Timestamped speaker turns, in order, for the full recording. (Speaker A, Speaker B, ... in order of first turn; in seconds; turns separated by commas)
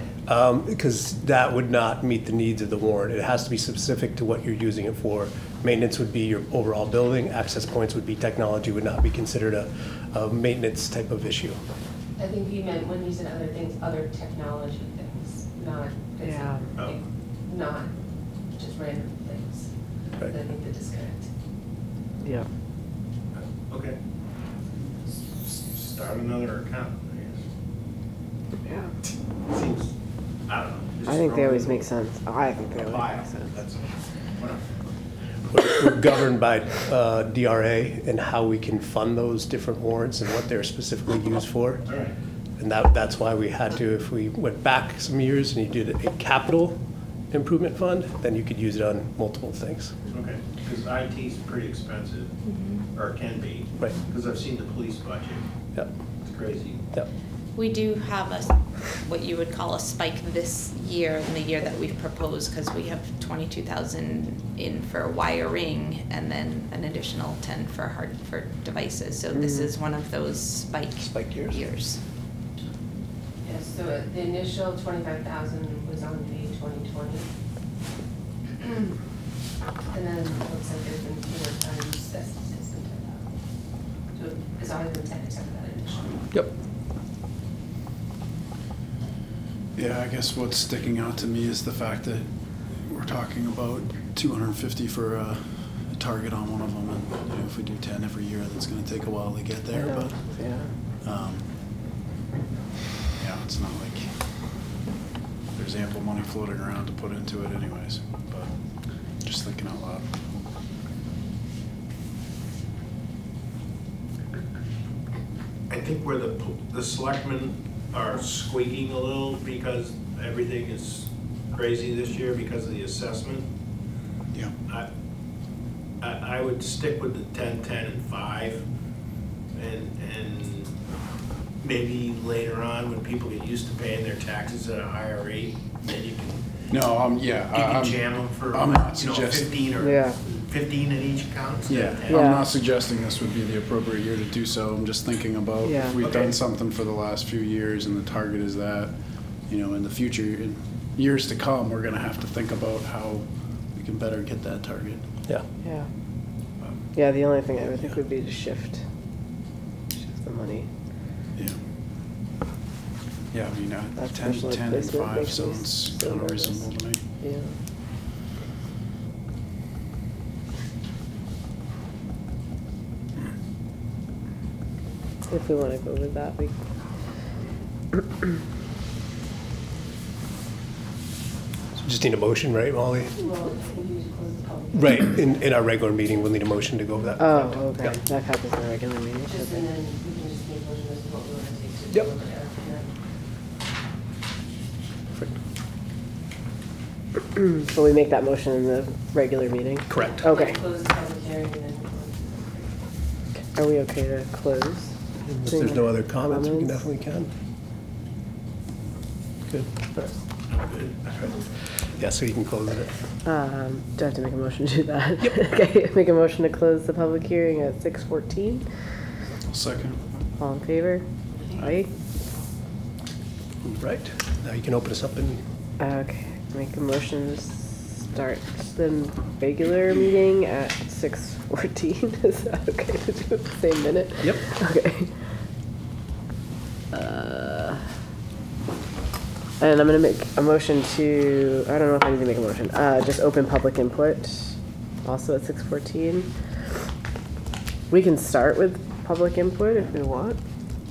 Speaker A: 0.3-11.6, Speaker B: 12.2-17.9, Speaker C: 16.2-16.6, Speaker B: 18.5-21.3, Speaker C: 22.2-22.5, Speaker D: 23.3-24.0, Speaker D: 25.0-27.4, Speaker C: 28.6-28.9, Speaker D: 29.5-29.9, Speaker D: 30.5-31.9, Speaker C: 31.0-33.5, Speaker D: 32.6-34.8, Speaker A: 35.5-41.8, Speaker D: 41.9-42.1, Speaker A: 42.6-46.8, Speaker A: 47.3-49.9, Speaker D: 50.1-52.3, Speaker E: 52.5-52.9, Speaker D: 52.9-55.4, Speaker D: 56.2-56.8, Speaker E: 57.5-72.0, Speaker C: 69.3-69.7, Speaker A: 71.0-71.5, Speaker B: 73.4-77.3, Speaker B: 79.9-83.2, Speaker B: 84.1-86.2, Speaker F: 89.8-92.2, Speaker F: 92.8-100.2, Speaker C: 99.7-100.7, Speaker F: 101.0-101.5, Speaker F: 103.2-104.1, Speaker F: 105.5-108.5, Speaker F: 109.2-110.4, Speaker D: 115.7-123.5, Speaker D: 126.0-128.6, Speaker D: 129.5-130.7, Speaker D: 131.6-136.4, Speaker F: 136.7-139.6, Speaker D: 137.5-142.4, Speaker C: 139.8-140.2, Speaker F: 141.7-148.9, Speaker C: 142.1-142.5, Speaker C: 145.6-146.0, Speaker D: 146.0-146.3, Speaker F: 149.5-155.0, Speaker C: 155.6-155.9, Speaker C: 156.9-158.8, Speaker C: 160.0-160.7, Speaker F: 163.3-167.0, Speaker C: 164.0-166.6, Speaker C: 167.2-167.5, Speaker C: 175.3-176.5, Speaker A: 181.8-183.1, Speaker B: 183.2-185.2, Speaker A: 184.7-188.0, Speaker C: 187.2-189.7, Speaker B: 189.2-192.9, Speaker C: 197.3-200.6, Speaker A: 199.9-200.2, Speaker B: 200.2-202.7, Speaker C: 203.5-206.8, Speaker A: 205.2-207.3, Speaker A: 209.5-210.1, Speaker D: 210.5-211.3, Speaker A: 211.9-212.9, Speaker C: 213.2-218.6, Speaker F: 219.5-220.0, Speaker C: 220.4-221.9, Speaker A: 223.7-225.4, Speaker C: 225.8-235.1, Speaker C: 236.9-237.8, Speaker C: 239.6-246.3, Speaker C: 247.9-250.4